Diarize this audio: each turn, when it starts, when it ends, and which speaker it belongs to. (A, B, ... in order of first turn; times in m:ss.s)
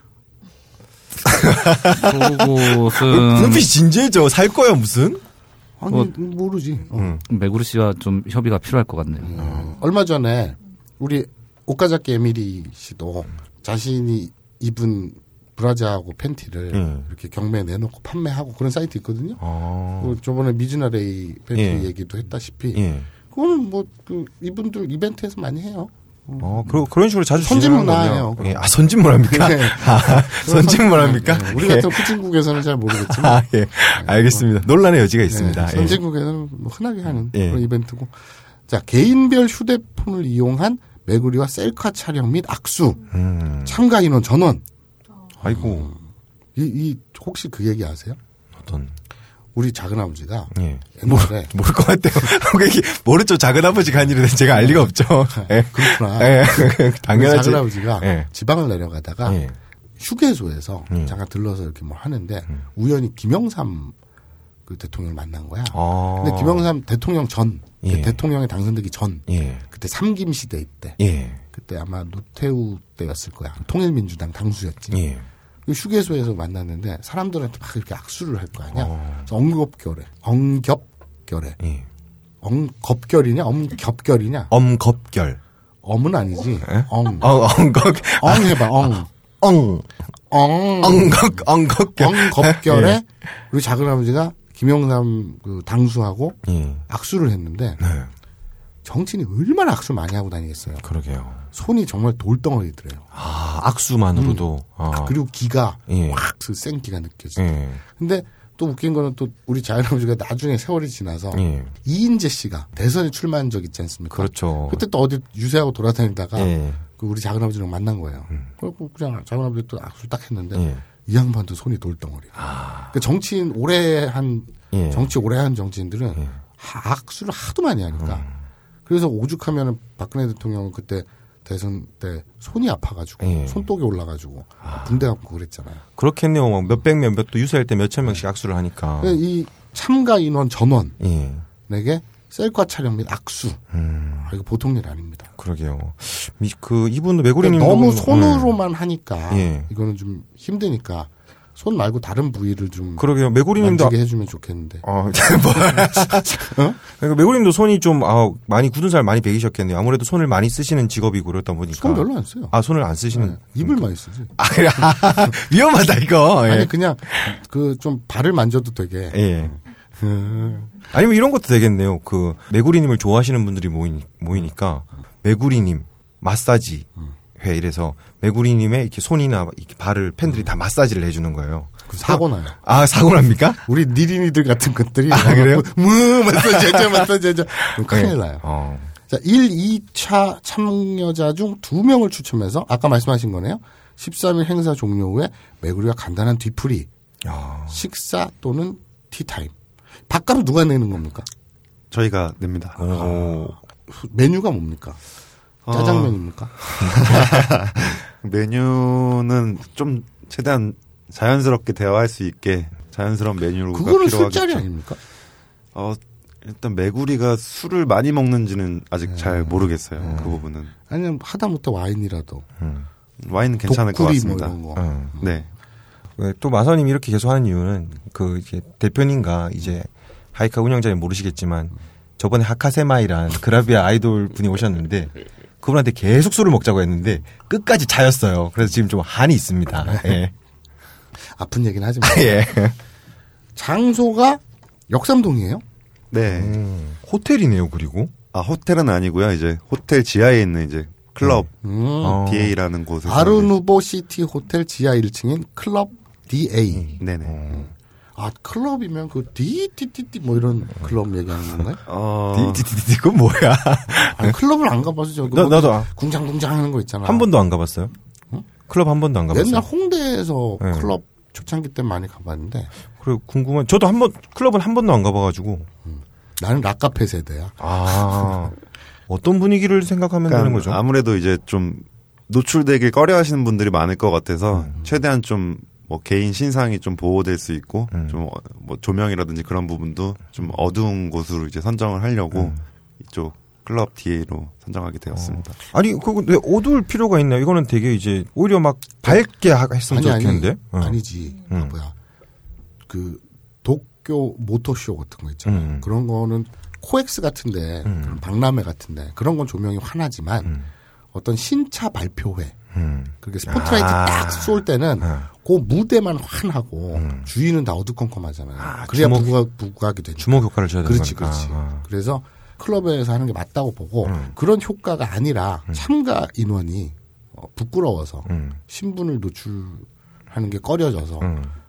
0:01.2-0:05.2 A
0:02.0-0:03.7 B
0:05.8-0:07.2 C
0:06.9-0:07.2 A
0:07.3-0:09.4 B
0:09.2-0:19.4 C
0:09.4-0:09.7 A
0:16.7-0:17.1 A
0:19.4-0:20.2 A
0:20.0-0:26.8 C
0:21.6-0:21.9 A
0:22.8-0:23.1 A
0:26.4-0:32.2 A
0:27.4-0:33.4 C
0:32.9-0:36.0 A
0:34.0-0:34.5 C
0:35.3-0:43.1 C
0:37.3-0:37.6 A
0:43.1-0:43.8 A
0:43.6-0:44.6 C
0:45.4-0:45.9 A
0:45.4-0:46.0 C
0:46.6-0:48.2 C
0:48.6-0:48.9 A
0:49.6-0:51.5 C
0:50.5-0:58.3 A
0:54.5-0:59.4 C
0:59.2-0:59.6 A
1:00.0-1:04.0 C
1:00.9-1:01.2 A
1:04.7-1:15.0 C
1:05.7-1:06.7 A
1:07.8-1:08.2 A
1:09.3-1:09.6 A
1:11.0-1:11.4 A
1:14.9-1:15.3 A
1:15.7-1:21.6 C
1:18.7-1:19.3 A
1:21.6-1:21.9 A
1:22.4-1:24.5 C
1:24.5-1:25.4 A
1:25.8-1:27.3 C
1:26.6-1:28.8 A
1:28.2-1:29.1 C
1:29.4-1:29.9 A
1:30.3-1:37.8 C
1:30.8-1:33.0 A
1:36.4-1:36.8 A
1:37.8-1:38.1 A
1:38.8-1:40.9 C
1:40.8-1:41.4 A
1:41.5-1:43.1 C
1:43.1-1:45.2 A
1:44.1-2:08.3 C
1:45.9-1:46.2 A
1:47.4-1:47.8 A
1:51.3-1:51.7 A
1:54.1-1:54.8 A
1:56.4-1:56.8 A
2:00.6-2:00.8 A
2:02.4-2:03.0 A
2:04.7-2:05.1 A
2:08.0-2:08.4 A
2:08.9-2:15.8 C
2:13.2-2:13.7 A
2:14.6-2:15.0 A
2:16.0-2:19.2 A
2:19.0-2:21.0 C
2:21.0-2:21.4 A
2:21.6-2:23.6 C
2:23.7-2:24.3 A
2:24.2-2:25.3 C
2:25.4-2:28.6 A
2:27.4-2:34.8 C
2:29.3-2:29.7 A
2:33.0-2:34.0 A
2:34.8-2:47.4 A
2:35.5-2:36.8 C
2:41.7-2:42.6 C
2:43.1-2:45.4 C
2:46.4-2:50.9 C
2:49.1-2:49.5 A
2:50.9-3:03.6 A
3:01.9-3:02.6 C
3:03.7-3:08.5 C
3:05.1-3:05.7 A
3:06.2-3:07.1 A
3:07.8-3:08.9 A
3:09.1-3:16.9 C
3:17.2-3:17.8 A
3:17.7-3:19.5 C
3:20.1-3:21.3 C
3:21.9-3:23.3 D
3:22.8-3:23.5 A
3:22.9-3:25.0 C
3:25.7-3:26.2 D
3:25.7-3:27.9 C
3:26.6-3:27.1 A
3:27.1-3:34.7 D
3:33.7-3:35.0 C
3:35.7-3:40.7 D
3:39.1-3:42.5 C
3:40.1-3:40.4 A
3:42.6-3:42.9 A
3:43.2-3:44.6 D
3:43.7-3:45.3 C
3:44.8-3:45.2 A
3:45.2-3:45.5 D
3:46.2-4:00.3 A
3:59.8-4:00.2 C
4:01.2-4:02.5 C
4:02.0-4:02.8 A
4:03.6-4:05.6 C
4:06.1-4:06.6 D
4:06.3-4:08.1 A
4:08.3-4:11.5 D
4:11.2-4:11.5 A
4:11.6-4:12.3 C
4:12.0-4:12.6 A
4:12.2-4:13.5 D
4:13.0-4:21.8 C
4:16.7-4:17.7 A
4:17.0-4:17.4 D
4:21.9-4:22.7 D
4:22.3-4:24.4 A
4:23.9-4:27.3 C
4:25.3-4:25.9 A
4:27.0-4:27.9 A
4:28.7-4:29.7 A
4:29.3-4:32.7 C
4:30.6-4:30.9 A
4:33.0-4:35.7 A
4:35.8-4:38.4 C
4:37.6-4:38.5 A
4:39.1-4:40.8 A
4:40.3-4:55.6 D
4:44.6-4:44.9 A
4:47.9-4:48.2 A
4:52.3-4:52.6 A
4:55.1-5:01.0 A
4:59.8-5:01.9 C
5:01.5-5:01.7 A
5:02.9-5:10.6 C
5:05.4-5:05.9 A
5:07.9-5:08.2 A
5:11.1-5:12.6 C
5:12.7-5:15.3 A
5:13.2-5:31.3 C
5:16.9-5:17.3 A
5:18.6-5:19.3 A
5:20.2-5:21.8 A
5:24.0-5:24.4 A
5:28.3-5:28.6 A
5:31.2-5:31.5 A